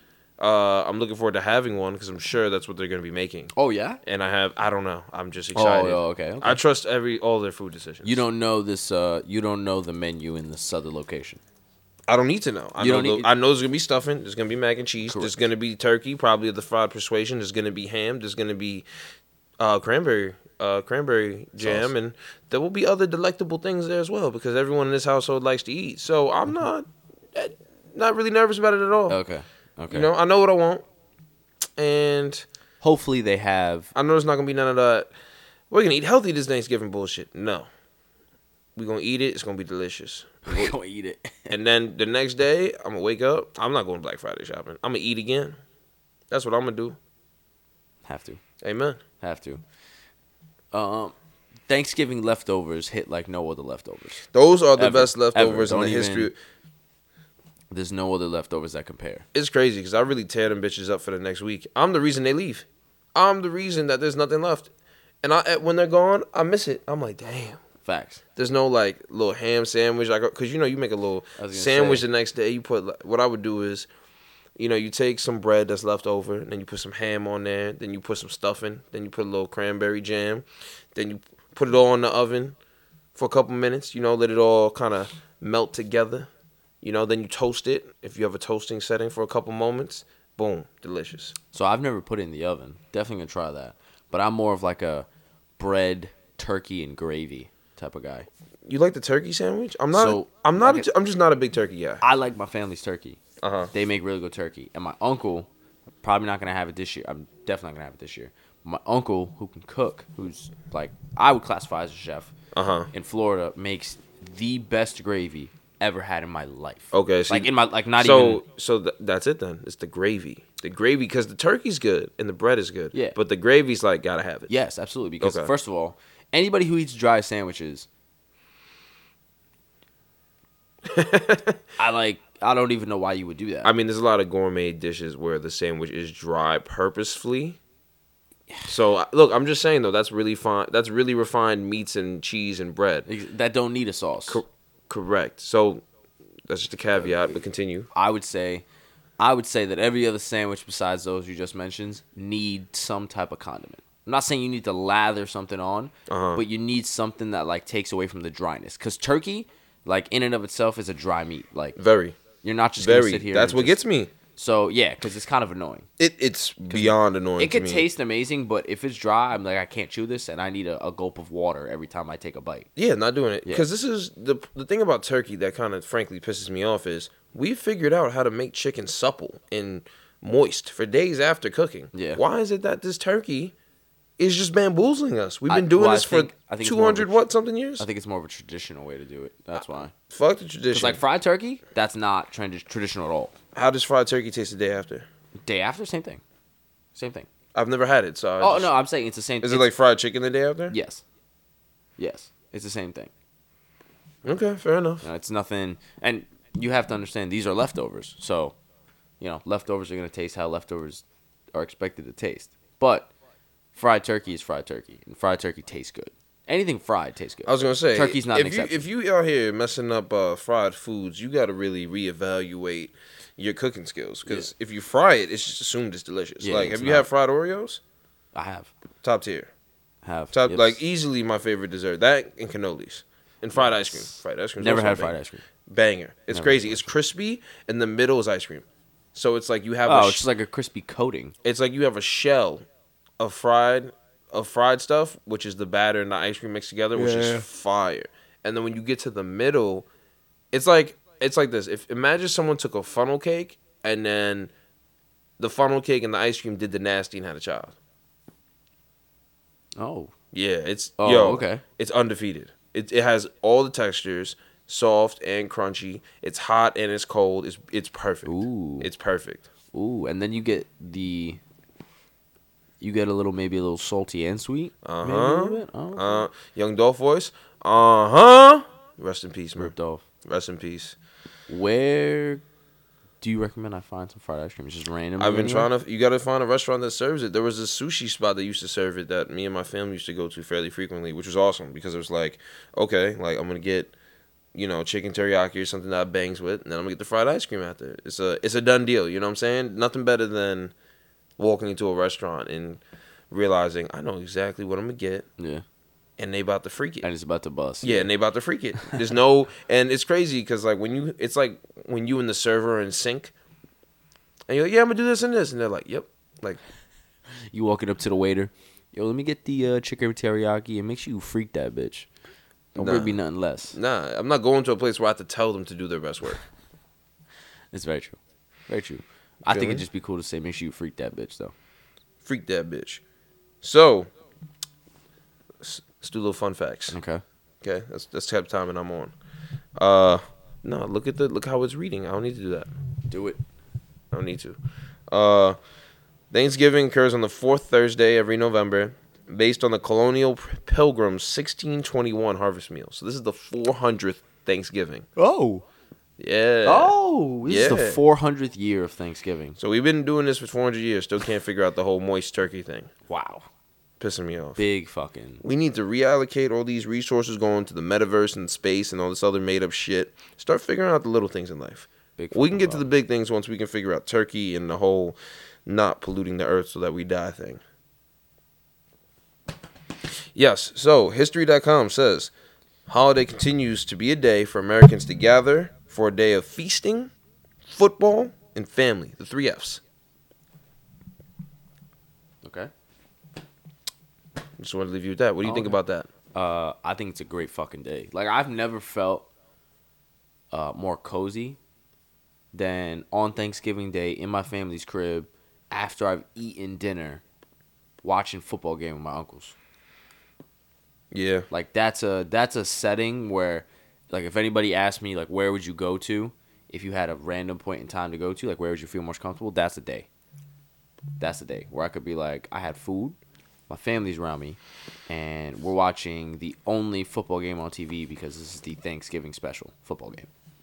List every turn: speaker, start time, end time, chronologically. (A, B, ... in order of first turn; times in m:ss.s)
0:00.4-0:08.2 A
0:03.5-0:04.0 B
0:05.5-0:06.6 B
0:08.0-0:11.4 B
0:12.1-0:18.8 A
0:12.8-0:13.3 B
0:15.1-0:15.3 B
0:19.6-0:29.2 A
0:21.6-0:21.9 B
0:29.1-0:30.1 B
0:29.9-0:30.8 A
0:31.8-0:32.4 A
0:32.8-0:33.9 B
0:33.9-0:35.1 A
0:35.7-0:37.7 A
0:38.8-0:40.8 A
0:40.4-0:41.6 B
0:41.5-0:45.6 A
0:46.3-0:47.0 A
0:48.0-0:48.4 B
0:48.6-0:49.0 A
0:49.2-0:49.6 B
0:50.7-0:51.1 B
0:51.7-0:54.2 B
0:54.3-0:56.4 A
0:54.8-0:56.3 B
0:57.7-0:59.2 B
0:59.3-1:04.7 A
1:05.2-1:07.6 A
1:07.8-1:08.2 B
1:08.4-1:13.9 A
1:11.4-1:12.0 B
1:14.6-1:22.6 A
1:23.1-1:26.3 A
1:26.8-1:31.3 A
1:31.5-1:35.1 B
1:35.6-1:38.3 B
1:38.6-1:42.0 A
1:39.9-1:40.9 B
1:42.0-1:43.2 B
1:43.4-1:43.7 A
1:43.7-1:45.5 B
1:46.0-1:52.3 B
1:52.5-1:52.9 A
1:52.9-1:58.4 B
1:56.9-2:04.5 A
2:04.5-2:07.9 B
2:05.2-2:05.5 A
2:10.8-2:11.6 A
2:11.8-2:13.7 B
2:13.6-2:17.6 A
2:18.7-2:23.1 A
2:23.0-2:24.4 B
2:24.3-2:25.8 A
2:26.5-2:27.9 A
2:27.9-2:28.6 B
2:29.2-2:41.8 B
2:36.1-2:36.4 A
2:41.8-2:42.2 A
2:42.4-2:43.8 B
2:42.8-2:44.1 A
2:44.3-2:45.9 B
2:46.0-2:47.9 A
2:46.7-2:52.7 B
2:52.8-3:03.5 A
3:01.9-3:02.2 B
3:04.2-3:07.8 A
3:05.5-3:07.2 B
3:07.8-3:09.9 B
3:10.1-3:11.0 A
3:10.7-3:13.3 B
3:13.5-3:15.0 A
3:15.4-3:16.2 B
3:16.9-3:17.3 B
3:17.5-3:18.7 A
3:18.4-3:19.7 B
3:19.4-3:20.7 A
3:20.7-3:21.0 B
3:22.0-3:23.1 B
3:24.2-3:25.0 A
3:25.0-3:28.6 B
3:29.2-3:33.1 B
3:33.7-3:38.8 B
3:37.4-3:47.8 A
3:46.4-3:47.1 B
3:48.3-3:48.7 B
3:49.0-3:49.5 A
3:50.0-3:50.8 B
3:50.3-3:55.1 A
3:53.5-3:55.4 B
3:55.7-4:00.2 A
3:56.3-3:56.9 B
3:59.8-4:01.3 B
4:01.4-4:02.6 A
4:03.2-4:09.9 A
4:10.5-4:14.5 A
4:15.4-4:17.7 A
4:19.8-4:20.1 B
4:20.3-4:29.5 A
4:21.0-4:21.6 B
4:28.2-4:28.9 B
4:29.7-4:31.4 B
4:32.8-4:36.3 B
4:34.8-4:39.7 A
4:39.6-4:40.0 B
4:40.2-4:41.0 A
4:41.5-4:42.4 B
4:43.2-4:45.7 B
4:45.2-4:53.9 A
4:54.5-5:00.7 A
5:01.4-5:05.3 A
5:05.4-5:05.6 B
5:06.2-5:07.1 A
5:07.0-5:08.1 B
5:07.8-5:13.3 A
5:14.5-5:16.6 A
5:17.5-5:22.1 B
5:22.7-5:23.8 B
5:22.8-5:23.2 A
5:23.7-5:26.4 A
5:27.7-5:31.5 B
5:29.5-5:29.8 A
5:32.2-5:33.0 A
5:33.6-5:34.1 A
5:35.6-5:37.0 A
5:36.9-5:37.2 B
5:37.6-5:39.1 A
5:39.8-5:42.7 A
5:43.1-5:43.4 B
5:44.1-5:44.6 A
5:45.1-5:45.6 A
5:46.3-5:55.1 A
5:55.2-5:55.6 B
5:56.2-5:56.9 A
5:56.6-5:59.6 B
5:57.4-5:58.0 A
5:59.6-6:02.9 A
6:03.1-6:03.4 B
6:04.0-6:04.6 A
6:04.6-6:05.4 B
6:05.4-6:17.6 A
6:12.2-6:12.8 B
6:20.3-6:22.3 A
6:22.9-6:27.1 A
6:27.6-6:29.8 A
6:32.4-6:32.7 B
6:34.6-6:36.1 A
6:35.4-6:35.8 B
6:36.3-6:39.3 B
6:40.5-6:41.6 B
6:42.5-6:47.2 B
6:48.0-6:49.5 B
6:51.1-6:51.5 A
6:51.5-7:00.1 B
7:01.2-7:03.2 B
7:03.7-7:10.3 B